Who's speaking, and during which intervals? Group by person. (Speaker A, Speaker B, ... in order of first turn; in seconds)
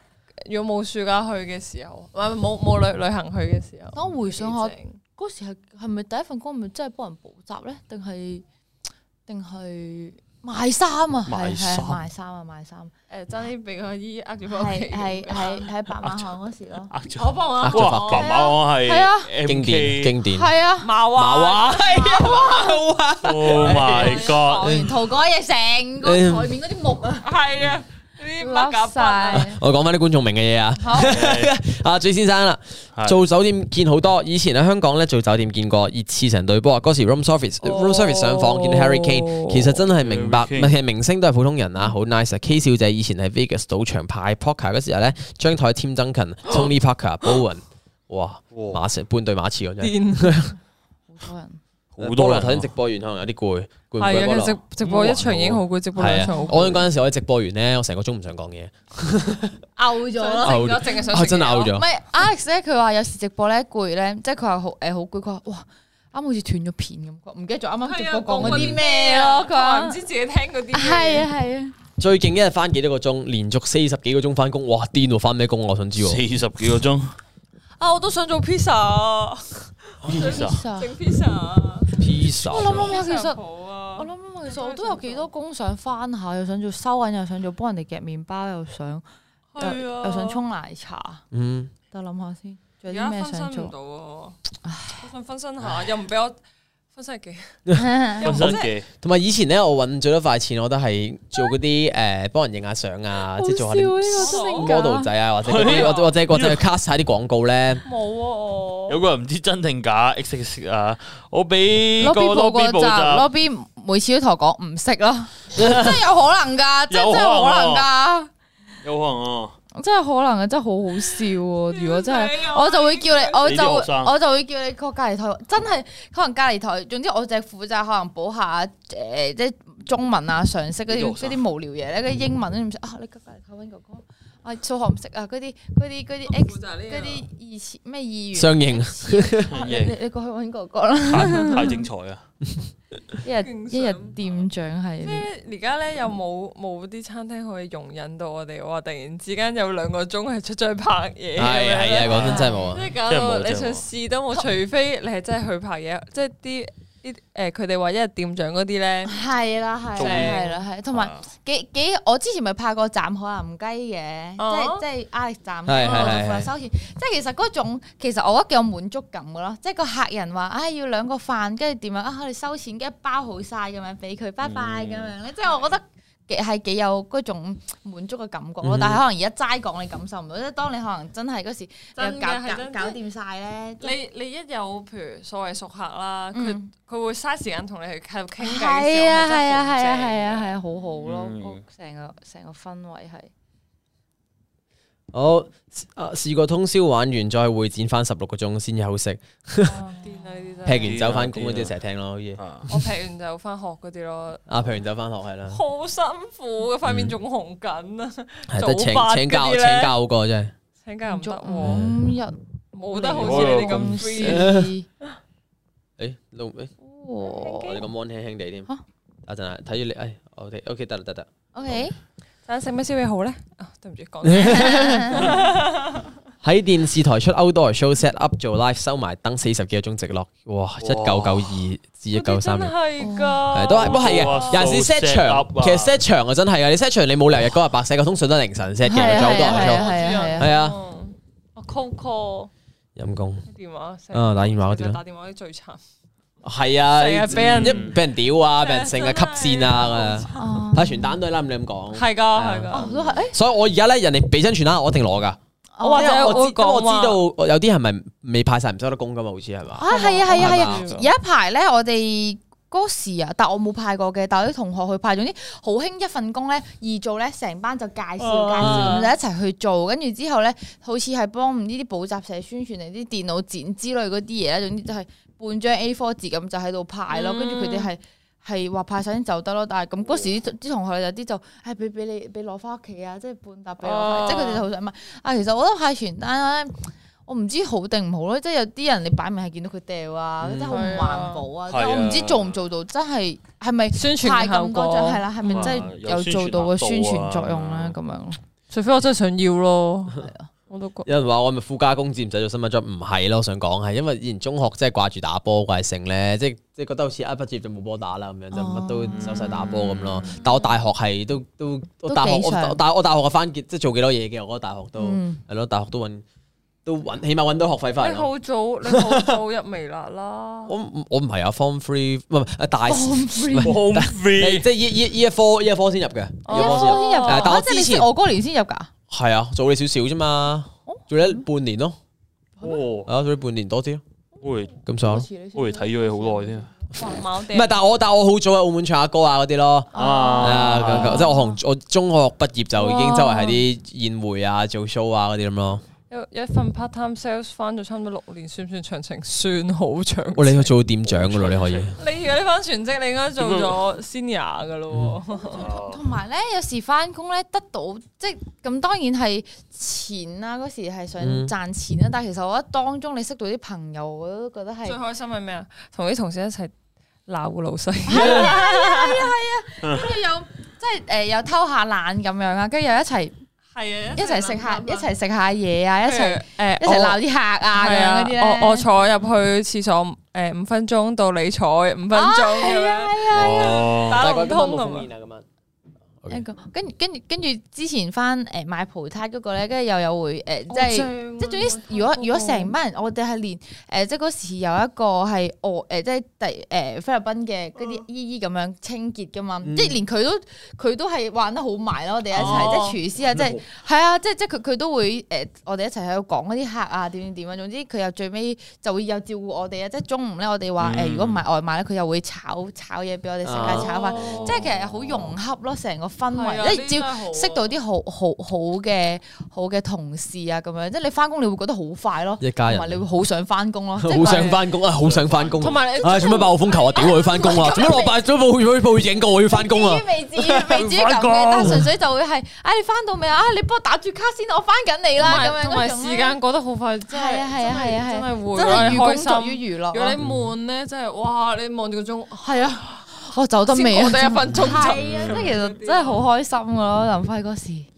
Speaker A: 0.4-5.0, 13.1-15.7, 17.1-18.4, 20.8-22.6, 23.7-24.4, 27.2-29.5, 37.6-39.6, 49.8-50.4, 54.0-56.9, 60.1-61.7, 67.9-71.3, 77.8-85.3, 89.5-90.4, 92.9-94.4, 95.0-96.4, 97.0-97.6, 98.2-98.7, 104.2-104.7, 105.5-105.9, 107.8-109.0, 121.7-123.4, 136.3-137.2, 143.4-144.2, 145.0-159.2, 160.0-160.5, 164.4-164.8, 165.8-166.2, 182.0-183.0, 183.8-190.6, 199.9-201.0, 202.7-204.4, 205.5-209.9, 210.8-211.8, 212.7-214.6, 217.2-217.8, 222.5-226.0, 232.1-234.7, 239.2-242.5, 243.5-245.8, 246.9-250.7, 251.9-252.9, 255.8-257.2, 259.9-261.1, 268.2-269.1, 277.1-277.9, 283.8-284.6, 290.7-291.4, 293.9-295.9, 298.7-301.1, 310.3-310.7, 318.0-320.7, 326.4-327.6, 336.9-337.7, 346.1-350.7, 352.0-355.7, 364.9-366.7, 367.3-369.3, 373.8-375.1, 376.0-377.2, 377.8-385.1, 390.7-392.7, 402.3-403.0, 413.7-414.6, 416.3-417.7, 425.6-427.1, 435.2-443.0, 443.7-446.2
Speaker B: 3.9-8.4, 9.3-12.9, 14.5-16.9, 18.1-19.3, 20.3-20.9, 22.1-22.8, 23.7-27.3, 28.4-29.6, 30.8-31.2, 51.1-51.6, 56.0-56.8, 59.8-70.0, 70.7-71.8, 80.2-80.9, 82.4-83.4, 84.0-89.0, 89.6-91.2, 91.9-93.7, 94.6-95.0, 97.8-98.3, 103.2-105.1, 112.0-118.3, 119.8-141.9, 143.2-145.3, 152.2-152.8, 159.1-183.9, 186.3-186.6, 188.4-193.3, 199.7-200.7, 211.1-212.4, 212.9-214.9, 216.8-217.8, 221.5-221.9, 224.5-225.3, 233.0-233.6, 238.8-240.5, 250.3-251.2, 252.7-253.4, 255.8-256.4, 259.8-298.4, 300.2-300.5, 308.5-310.3, 312.1-312.8, 315.0-315.4, 322.9-323.9, 326.5-328.9, 330.9-331.4, 334.9-336.7, 339.9-341.6, 342.8-343.6, 355.4-365.0, 368.1-373.4, 374.1-378.9, 382.1-384.1, 386.3-424.7, 426.1-428.2, 429.4-436.4, 437.1-440.2, 442.4-447.9
Speaker C: 11.3-12.0, 16.9-20.1, 23.2-24.8, 31.0-31.5, 33.0-33.2, 39.9-40.7, 48.5-48.8, 52.0-52.7, 54.8-55.6, 76.0-77.2, 80.2-80.6, 98.2-98.9, 105.4-106.6, 108.9-113.2, 116.9-117.9, 118.8-119.6, 123.4-124.1, 130.9-131.4, 139.5-140.0, 141.1-142.2, 152.1-152.4, 153.0-153.8, 160.0-161.2, 174.4-175.1, 191.0-191.6, 200.8-201.8, 202.4-202.7, 213.2-214.0, 230.8-231.6, 233.8-236.0, 247.3-248.0, 252.9-253.2, 268.6-268.9, 290.5-290.8, 291.7-292.6, 295.4-298.0, 309.1-310.4, 323.6-324.7, 332.6-333.1, 334.4-334.8, 335.5-336.7, 339.9-341.3, 351.1-352.0, 353.4-353.8, 355.6-356.0, 383.3-384.2, 402.4-402.7, 403.3-403.6, 410.8-411.4, 414.1-415.1, 425.0-425.7, 430.7-431.8, 445.0-445.4
Speaker D: 17.6-18.3, 19.5-20.5, 21.1-24.9, 26.0-26.5, 29.4-50.5, 52.0-54.6, 56.0-59.6, 60.4-61.9, 68.4-68.8, 72.0-76.2, 80.0-80.3, 82.0-82.9, 91.3-91.7, 97.7-107.8, 115.6-115.9, 138.3-139.5, 151.4-152.8, 165.7-166.5, 178.6-179.0, 195.1-199.8, 200.7-202.4, 204.5-205.6, 206.8-207.1, 208.5-210.5, 211.7-212.0, 214.2-214.7, 216.0-216.7, 217.6-218.7, 219.3-221.3, 224.2-224.9, 226.4-232.8, 233.5-240.8, 243.0-243.4, 244.1-245.0, 246.4-255.4, 256.0-260.8, 301.1-316.2, 316.9-318.3, 318.9-319.4, 320.7-328.1, 329.1-332.0, 333.1-334.0, 334.9-335.3, 337.4-345.8, 350.4-352.0, 361.2-361.5, 384.1-385.4, 399.6-400.0, 413.4-413.9, 422.4-423.0, 424.0-430.9, 431.6-431.8, 444.5-445.5